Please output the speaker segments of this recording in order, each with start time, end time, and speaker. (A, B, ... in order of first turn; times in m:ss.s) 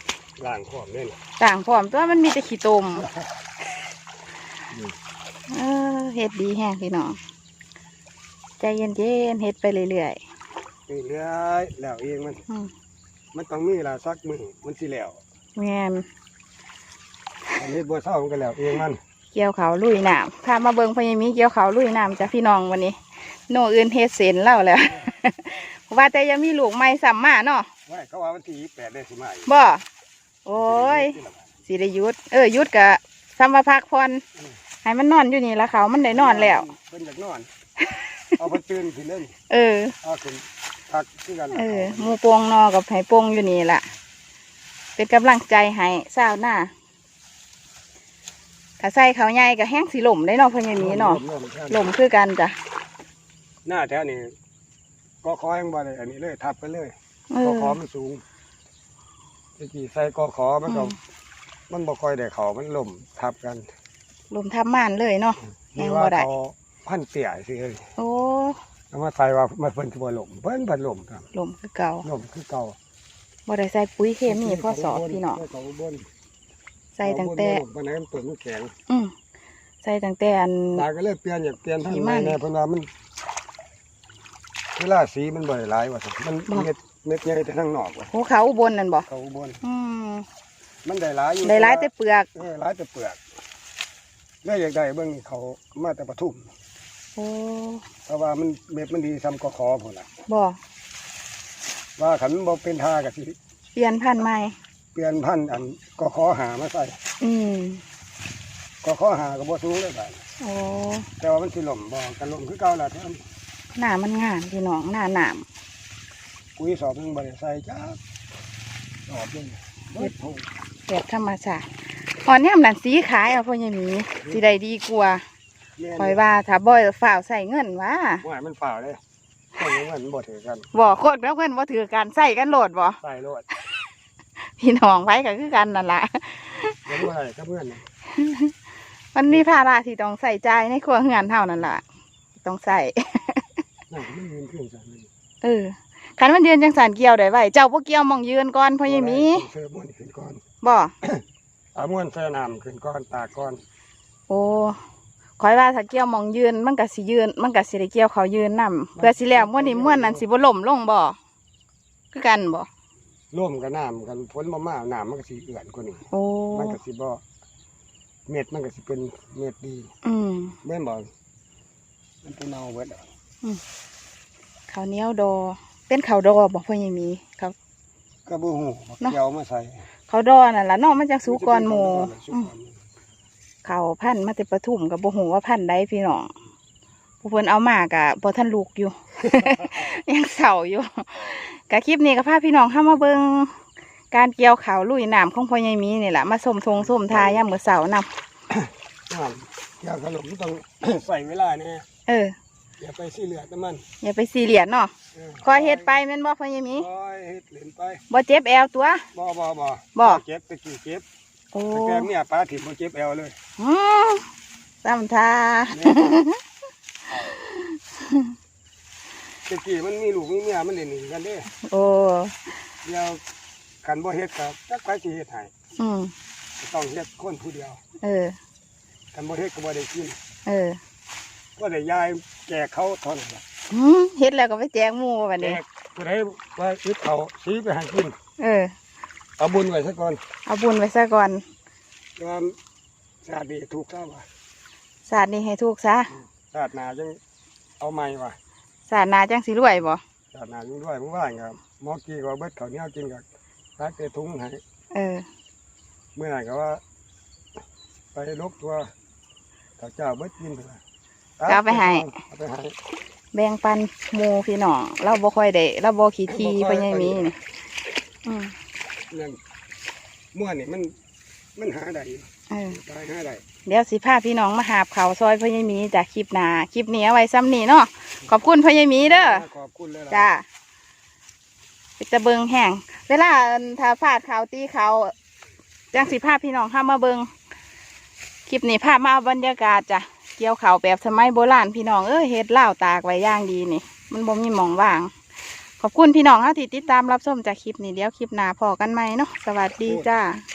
0:00.4-0:01.2 A
0:01.4-0:03.1 B
0:03.0-0:03.3 A
0:04.7-0:05.0 A
0:05.5-0:07.2 B
0:08.6-0:10.2 B
0:10.9-0:12.4 A
0:13.3-0:15.2 A
0:15.6-0:16.1 B
0:17.6-0:19.0 A
0:19.3-0:27.7 B
0:27.9-0:29.6 A
0:29.5-0:29.8 B
0:30.5-0:31.1 B
0:30.6-0:31.5 A
0:31.6-0:34.2 B
0:34.8-0:36.6 B
0:36.1-0:37.5 A
0:38.4-0:39.4 A
0:39.5-0:40.0 B
0:40.0-0:42.2 A
0:41.5-0:43.9 B
0:45.0-0:46.7 B
0:48.8-0:51.2 B
0:50.7-0:51.9 A
0:51.7-0:52.6 B
0:53.6-0:54.3 A
0:55.2-0:58.2 A
0:57.3-0:57.8 B
0:59.6-1:01.0 A
1:00.7-1:01.0 B
1:01.7-1:03.7 A
1:04.3-1:06.3 B
1:05.7-1:07.9 A
1:08.0-1:08.6 B
1:08.9-1:11.3 A
1:11.3-1:12.1 B
1:12.0-1:12.8 A
1:13.5-1:15.4 B
1:14.2-1:16.1 A
1:17.0-1:17.6 B
1:17.0-1:18.7 A
1:18.9-1:19.1 B
1:19.8-1:20.8 B
1:20.8-1:22.9 A
1:21.8-1:22.4 B
1:24.8-1:28.1 A
1:28.1-1:29.1 B
1:29.1-1:29.6 A
1:29.6-1:30.2 B
1:30.8-1:33.2 A
1:31.4-1:32.4 B
1:34.4-1:36.5 A
1:37.2-1:37.8 B
1:38.1-1:40.1 A
1:40.3-1:40.6 B
1:42.0-1:43.4 A
1:43.8-1:44.6 B
1:44.9-1:47.0 A
1:47.2-1:47.8 B
1:48.8-1:50.2 A
1:50.4-1:51.1 B
1:51.2-1:53.2 A
1:53.8-1:55.5 B
1:56.6-1:58.0 A
1:59.1-2:00.5 A
2:00.9-2:01.7 B
2:02.2-2:05.2 B
2:04.2-2:04.5 A
2:05.8-2:06.2 A
2:06.0-2:08.2 B
2:08.2-2:09.0 A
2:09.6-2:10.7 A
2:10.7-2:13.0 B
2:13.0-2:13.5 A
2:14.6-2:16.8 B
2:16.9-2:17.8 A
2:18.1-2:18.5 B
2:19.1-2:21.8 B
2:22.4-2:23.5 B
2:23.9-2:25.1 A
2:25.4-2:29.5 B
2:28.8-2:30.4 A
2:30.6-2:30.9 B
2:31.8-2:33.6 A
2:34.3-2:34.8 B
2:35.4-2:41.2 B
2:39.0-2:40.2 A
2:42.1-2:42.7 B
2:43.3-2:47.2 A
2:46.1-2:46.8 B
2:48.3-2:49.9 A
2:50.0-2:50.6 B
2:50.6-2:51.1 A
2:52.2-2:53.1 A
2:54.7-2:57.6 B
2:58.2-2:59.8 A
3:00.1-3:02.5 B
3:01.2-3:02.8 A
3:03.6-3:06.3 B
3:07.2-3:13.6 B
3:14.1-3:18.1 B
3:16.8-3:17.5 A
3:18.5-3:21.9 A
3:22.1-3:22.3 B
3:22.8-3:23.8 A
3:24.0-3:24.9 B
3:25.1-3:26.0 A
3:25.4-3:26.9 B
3:26.8-3:28.0 A
3:28.1-3:29.1 B
3:29.1-3:31.0 A
3:30.0-3:30.2 B
3:31.5-3:32.1 B
3:31.7-3:33.4 A
3:33.6-3:34.2 B
3:34.8-3:36.4 B
3:35.7-3:36.2 A
3:37.2-3:38.3 B
3:39.5-3:41.5 A
3:41.6-3:42.6 B
3:42.8-3:43.2 A
3:43.8-3:45.5 A
3:45.8-3:46.1 B
3:46.6-3:47.8 A
3:48.0-3:48.4 B
3:49.1-3:50.2 A
3:50.5-3:50.8 B
3:51.6-3:53.4 A
3:53.7-3:55.6 B
3:55.4-3:58.2 A
3:58.4-3:58.7 B
3:59.4-4:00.2 A
4:00.5-4:01.4 B
4:02.2-4:02.6 A
4:03.2-4:04.2 A
4:05.1-4:06.1 B
4:06.1-4:07.2 A
4:07.8-4:08.4 A
4:08.9-4:10.0 B
4:10.3-4:13.2 A
4:13.8-4:14.6 A
4:14.9-4:15.2 B
4:16.1-4:16.8 A
4:18.1-4:18.9 A
4:19.8-4:20.8 A
4:21.4-4:22.8 A
4:21.5-4:22.1 B
4:23.3-4:27.4 B
4:26.3-4:27.4 A
4:28.2-4:28.5 B
4:29.1-4:29.4 A
4:30.3-4:30.9 A
4:31.6-4:33.4 A
4:32.5-4:32.8 B
4:33.6-4:39.4 B
4:39.0-4:40.3 A
4:40.1-4:40.4 B
4:42.0-4:45.1 B
4:45.9-4:47.3 B
4:48.5-4:55.1 B
4:55.8-5:00.4 B
4:59.8-5:00.1 A